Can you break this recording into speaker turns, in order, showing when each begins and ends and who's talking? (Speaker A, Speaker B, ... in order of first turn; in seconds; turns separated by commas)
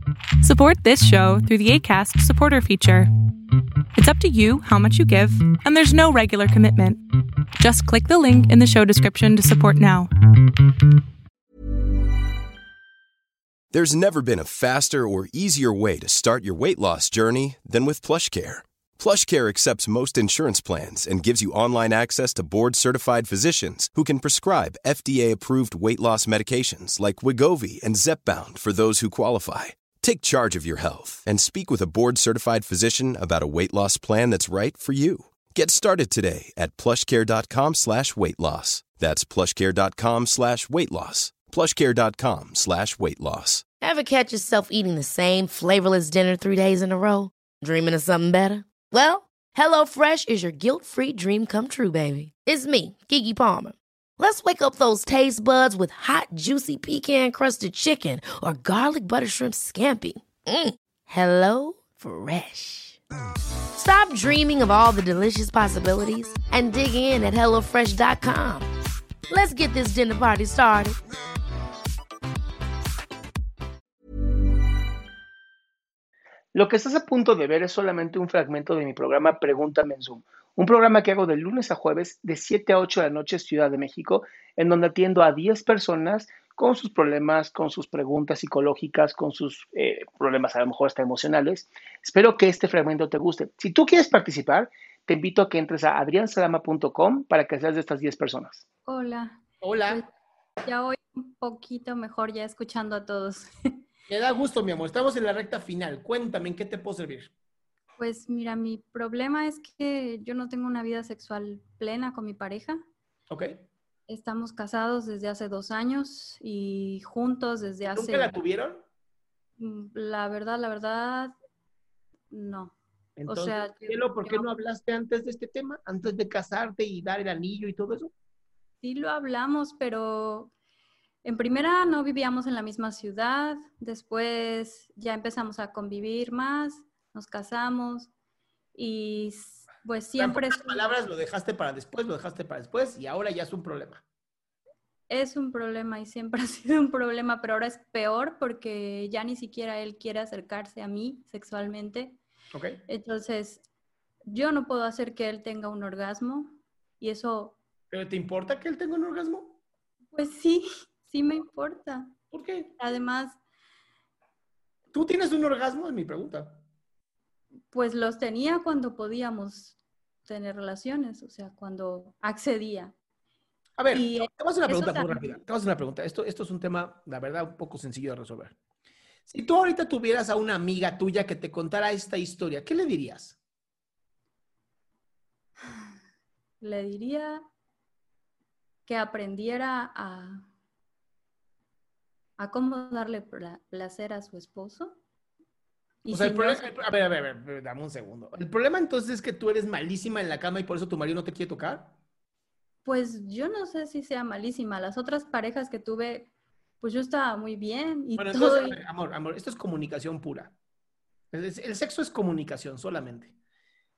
Speaker A: 0.4-3.1, Speaker A: 3.9-7.0, Speaker A: 7.6-10.1, Speaker B: 13.7-43.6, Speaker C: 43.8-63.0, Speaker C: 63.7-68.7, Speaker C: 69.3-71.0, Speaker D: 76.5-98.6, Speaker E: 98.8-100.1, Speaker D: 99.6-100.0, Speaker E: 100.6-103.5, Speaker D: 104.1-107.3, Speaker E: 108.0-112.8, Speaker D: 113.3-113.6, Speaker E: 114.1-118.4, Speaker D: 117.9-118.8, Speaker E: 119.6-121.3, Speaker E: 122.3-124.5, Speaker D: 123.2-128.1, Speaker E: 128.8-130.5, Speaker E: 131.2-138.1, Speaker E: 138.7-140.9, Speaker D: 140.2-144.0, Speaker E: 145.1-152.2, Speaker D: 152.5-152.8, Speaker E: 152.9-153.6, Speaker E: 154.3-157.6, Speaker D: 157.9-159.6, Speaker E: 160.1-162.1, Speaker D: 162.3-162.7, Speaker E: 162.7-163.4, Speaker D: 164.9-166.6, Speaker E: 167.7-172.9, Speaker D: 173.8-178.6, Speaker E: 173.9-175.4, Speaker D: 179.3-183.4, Speaker E: 186.6-187.4, Speaker E: 188.8-190.5, Speaker E: 192.4-195.0, Speaker E: 196.0-196.7, Speaker D: 196.1-202.0, Speaker E: 202.8-208.8, Speaker D: 208.2-210.6, Speaker D: 211.3-213.3